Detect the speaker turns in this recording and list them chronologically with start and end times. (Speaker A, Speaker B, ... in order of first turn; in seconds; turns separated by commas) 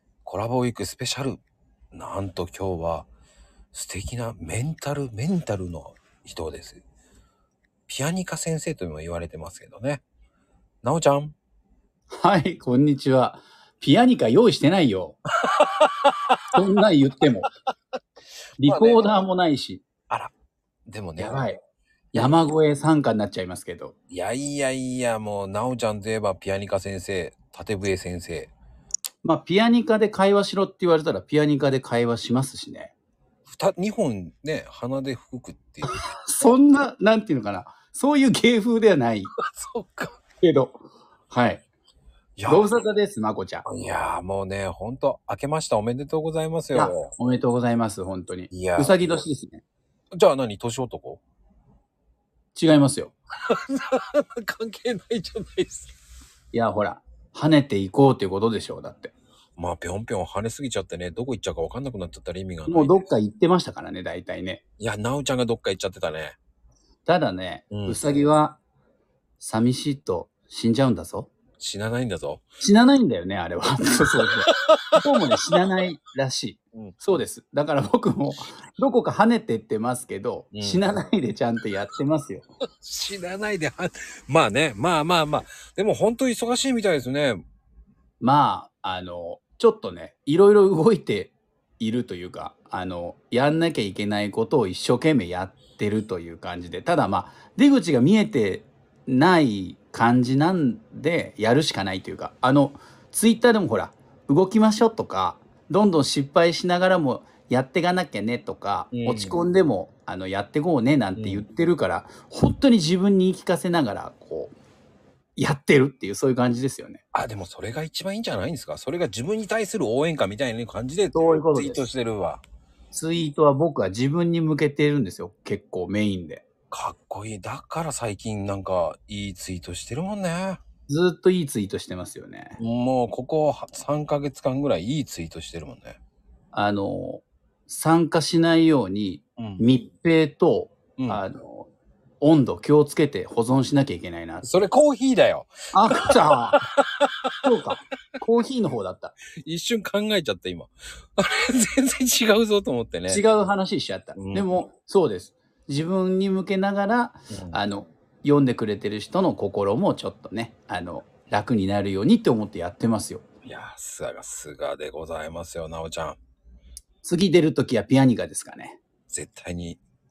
Speaker A: 0.2-1.4, Speaker A: 1.9-3.1, Speaker A: 3.7-6.8, Speaker A: 7.9-10.0, Speaker A: 10.8-11.3, Speaker B: 12.1-15.2, Speaker A: 15.5-16.3, Speaker B: 16.5-17.5, Speaker B: 18.6-19.8, Speaker A: 18.6-19.1, Speaker A: 20.9-21.4, Speaker B: 21.2-21.6, Speaker B: 22.1-23.9, Speaker A: 24.1-28.5, Speaker B: 29.2-32.9, Speaker A: 33.5-36.0, Speaker B: 35.8-39.3, Speaker A: 39.4-40.2, Speaker B: 40.4-41.6, Speaker A: 42.4-42.7, Speaker B: 42.5-43.6, Speaker A: 43.6-47.1, Speaker B: 46.7-49.6, Speaker A: 48.5-49.2, Speaker A: 50.1-51.2, Speaker B: 52.5-53.1, Speaker A: 53.5-55.9, Speaker B: 56.5-59.1, Speaker A: 59.6-63.0, Speaker B: 62.7-64.6, Speaker A: 64.8-66.4, Speaker B: 67.1-68.6, Speaker A: 67.7-68.0, Speaker B: 69.4-71.3, Speaker A: 71.6-72.4, Speaker B: 72.6-82.5, Speaker A: 74.7-75.0, Speaker A: 80.5-81.0, Speaker A: 82.8-87.4, Speaker B: 88.2-114.5, Speaker A: 108.9-109.4, Speaker A: 111.2-111.4, Speaker B: 115.4-117.0, Speaker A: 117.1-122.4, Speaker B: 121.1-121.8, Speaker B: 122.9-126.4, Speaker A: 126.7-130.6, Speaker B: 130.9-132.6, Speaker A: 132.6-136.0, Speaker B: 136.5-144.7, Speaker A: 139.4-139.7, Speaker A: 141.0-141.2, Speaker A: 144.4-147.0, Speaker B: 145.7-146.6, Speaker B: 147.4-149.2, Speaker A: 149.4-153.2, Speaker B: 153.1-163.2, Speaker A: 154.2-154.6, Speaker A: 157.3-157.6, Speaker A: 163.4-166.2, Speaker B: 167.0-168.8, Speaker A: 169.1-169.8